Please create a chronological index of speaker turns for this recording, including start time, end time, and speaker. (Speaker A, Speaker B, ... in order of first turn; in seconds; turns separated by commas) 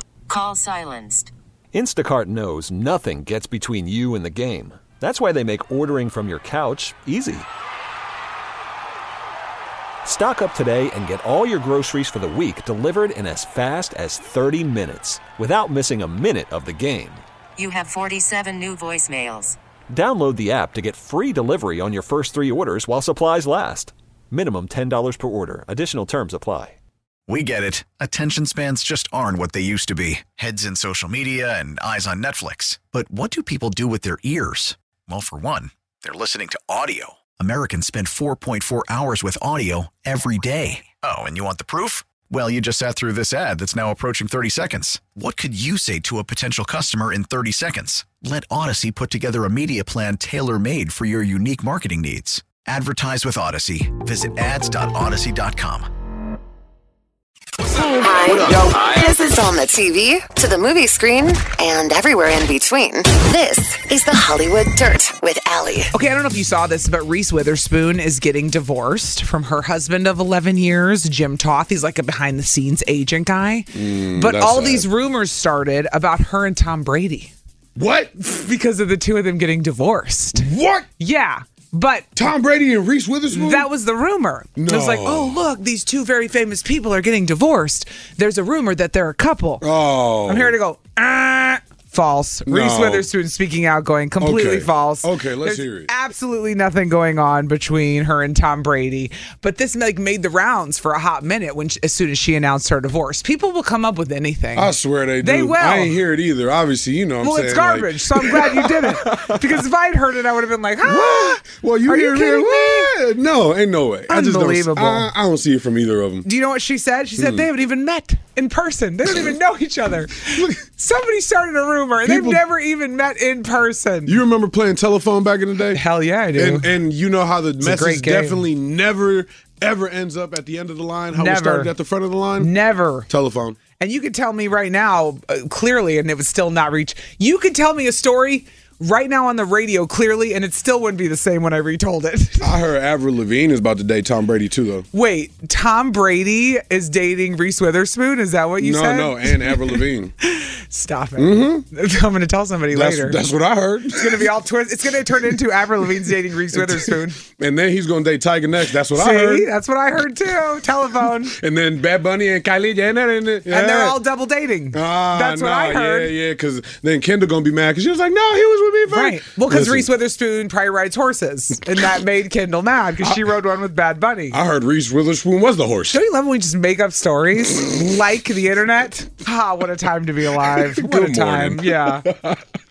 Speaker A: 0.3-1.3, Speaker B: 1.7-7.5, Speaker B: 10.1-17.2, Speaker A: 17.6-19.6, Speaker B: 19.9-26.8, Speaker C: 27.3-55.9, Speaker D: 57.8-65.9, Speaker E: 65.9-77.3, Speaker F: 73.7-74.9, Speaker F: 77.8-78.2, Speaker E: 78.2-82.1, Speaker F: 80.3-80.9, Speaker F: 82.2-83.7, Speaker E: 83.3-89.7, Speaker F: 84.6-85.4, Speaker F: 89.6-90.6, Speaker E: 90.3-106.0, Speaker F: 92.5-93.1, Speaker F: 94.2-95.9, Speaker F: 104.5-109.6, Speaker E: 107.2-112.9, Speaker F: 110.8-116.3, Speaker E: 114.1-115.1, Speaker E: 116.2-124.2, Speaker F: 117.2-117.5, Speaker F: 120.3-120.6, Speaker F: 122.0-122.4, Speaker F: 124.1-125.8, Speaker E: 125.8-126.7, Speaker F: 126.3-132.5, Speaker E: 127.6-128.4, Speaker E: 131.1-131.7, Speaker E: 132.4-133.1, Speaker F: 133.1-133.6, Speaker E: 133.8-142.5, Speaker F: 142.4-144.9, Speaker E: 144.9-153.2, Speaker F: 148.6-150.1, Speaker F: 151.2-151.7, Speaker F: 152.7-154.3, Speaker E: 153.9-157.2, Speaker F: 156.0-159.5, Speaker E: 158.9-161.4, Speaker F: 161.3-164.0, Speaker E: 163.5-166.1, Speaker F: 164.7-169.9, Speaker E: 168.9-174.4, Speaker F: 174.3-176.0, Speaker E: 175.9-182.1, Speaker F: 180.3-182.4